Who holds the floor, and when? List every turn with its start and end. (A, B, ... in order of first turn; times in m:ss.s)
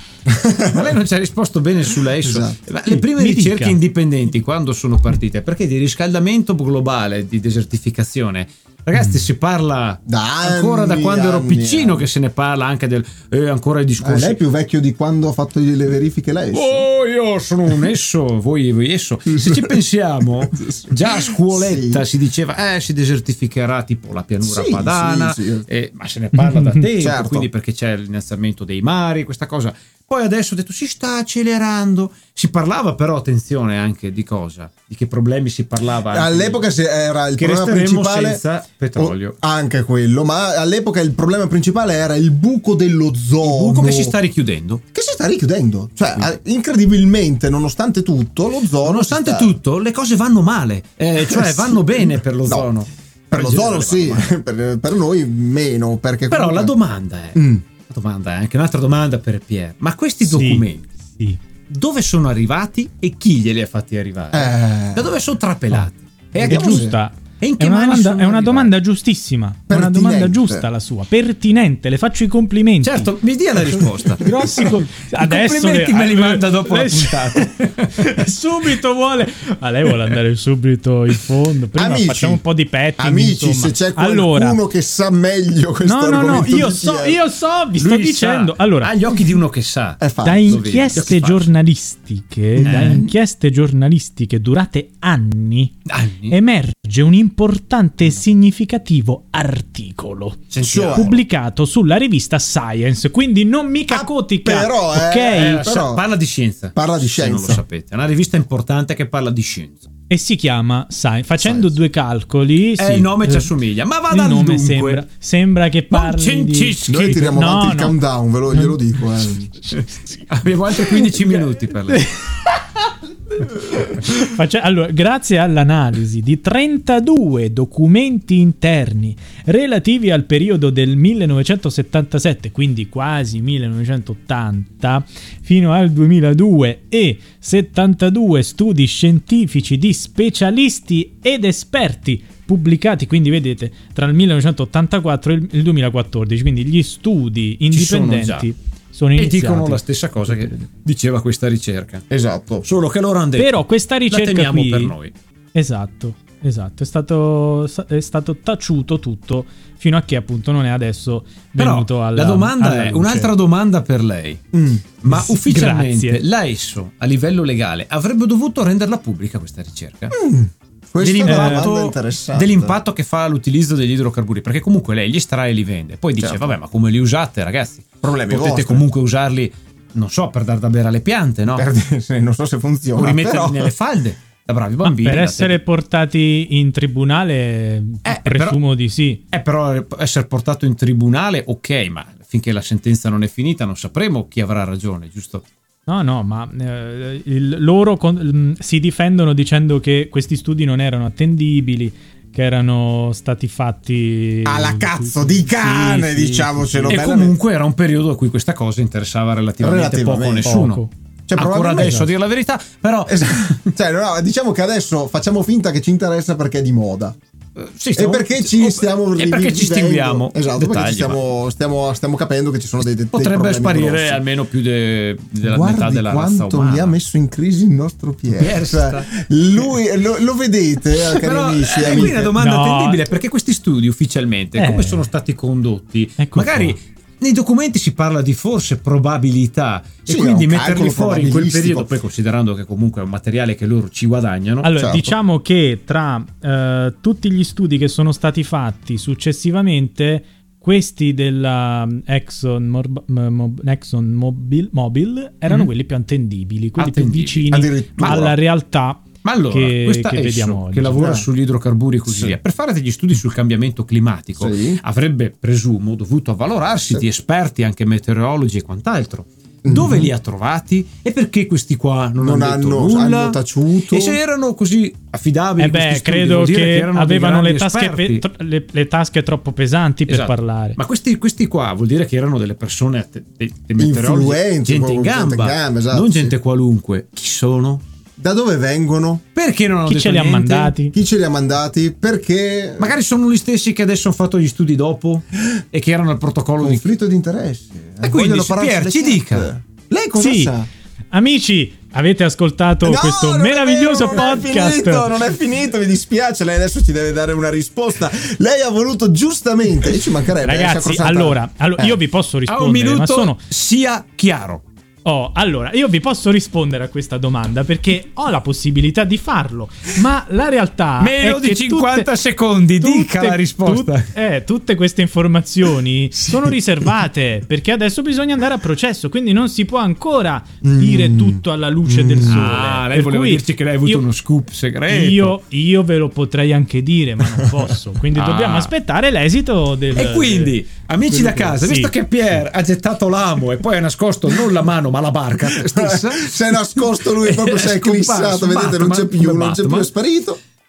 0:00.3-0:00.9 A
0:00.7-0:14.4 B
0:02.2-0:02.6 A
0:02.8-0:03.8 C
0:10.1-0:12.0 A
0:14.0-0:16.8 A
0:16.5-0:36.6 B
0:19.3-0:19.8 A
0:20.4-0:22.0 A
0:24.4-0:25.6 A
0:27.0-0:27.5 A
0:36.1-0:38.4 A
0:37.4-0:39.4 B
0:39.0-0:44.1 A
0:43.4-0:44.8 B
0:44.9-0:49.6 A
0:48.8-0:54.3 B
0:51.2-0:52.7 A
0:53.3-0:56.7 A
0:56.3-1:00.9 B
0:57.3-0:57.6 A
1:00.2-1:00.6 C
1:01.7-1:08.7 B
1:04.3-1:05.1 A
1:06.3-1:07.0 A
1:06.4-1:13.1 C
1:09.7-1:10.7 A
1:12.8-1:18.2 B
1:13.7-1:24.6 C
1:21.8-1:22.4 A
1:23.0-1:27.2 A
1:25.8-1:28.9 C
1:27.8-1:31.5 B
1:30.0-1:31.1 A
1:30.2-1:35.8 C
1:32.6-1:33.1 A
1:32.6-1:33.0 B
1:35.9-1:36.4 B
1:36.3-1:45.6 C
1:40.5-1:41.2 B
1:40.6-1:41.2 A
1:43.9-1:46.0 A
1:45.3-1:49.8 B
1:46.7-1:47.6 A
1:50.1-1:53.5 C
1:51.4-1:51.7 A
1:52.8-1:55.0 B
1:54.1-1:58.0 C
1:55.9-1:57.2 B
1:56.9-1:59.5 A
1:59.7-2:02.1 B
2:01.9-2:30.6 C
2:27.7-2:28.5 B
2:29.2-2:32.0 B
2:32.1-2:32.6 A
2:32.6-2:35.1 B
2:33.4-2:34.9 C
2:35.5-2:43.3 C
2:41.6-2:44.4 B
2:44.5-2:44.8 A
2:45.0-2:50.2 B
2:45.1-2:46.2 C
2:50.1-2:52.8 A
2:51.0-3:01.6 B
2:51.2-2:51.7 C
2:56.2-2:56.6 A
2:58.0-2:58.9 A
3:01.5-3:03.7 A
3:03.0-3:05.6 B
3:04.8-3:09.2 C
3:08.0-3:08.6 B
3:09.3-3:15.4 B
3:15.9-3:27.0 C
3:24.4-3:27.4 A
3:26.9-3:30.8 B
3:29.6-3:30.6 A
3:30.4-3:30.9 C
3:31.3-3:32.1 A
3:31.3-3:33.6 B
3:31.8-3:32.0 C
3:33.1-3:37.2 A
3:37.6-3:41.2 B
3:37.9-3:44.2 A
3:43.1-3:47.0 B
3:45.4-3:52.3 A
3:48.4-3:49.2 B
3:51.0-4:04.7 B
3:52.3-3:53.0 C
3:54.6-3:55.1 C
3:56.2-3:56.8 C
4:00.1-4:01.9 A
4:04.6-4:21.2 C
4:04.8-4:05.1 A
4:16.8-4:18.3 B
4:17.5-4:18.3 A
4:19.2-4:38.2 B
4:21.0-4:21.2 A
4:22.0-4:22.4 A
4:24.4-4:24.8 A
4:29.6-4:30.1 A
4:32.2-4:34.2 A
4:35.6-4:40.8 C
4:40.1-4:47.8 B
4:43.8-4:46.3 A
4:48.2-4:49.2 A
4:49.3-4:50.7 B
4:49.8-4:50.9 C
4:50.9-4:52.9 A
4:52.8-4:56.8 B
4:56.6-5:00.7 A
4:58.0-4:59.5 B
5:00.2-5:00.5 C
5:01.1-5:05.1 C
5:02.8-5:12.0 A
5:10.4-5:13.4 C
5:12.5-5:14.6 B
5:15.0-5:22.1 C
5:21.0-5:24.1 B
5:22.8-5:34.0 C
5:26.2-5:26.5 A
5:30.6-5:32.5 A
5:32.2-5:35.3 B
5:34.9-5:41.9 C
5:38.1-5:38.7 B
5:39.9-5:49.9 B
5:45.4-5:50.4 A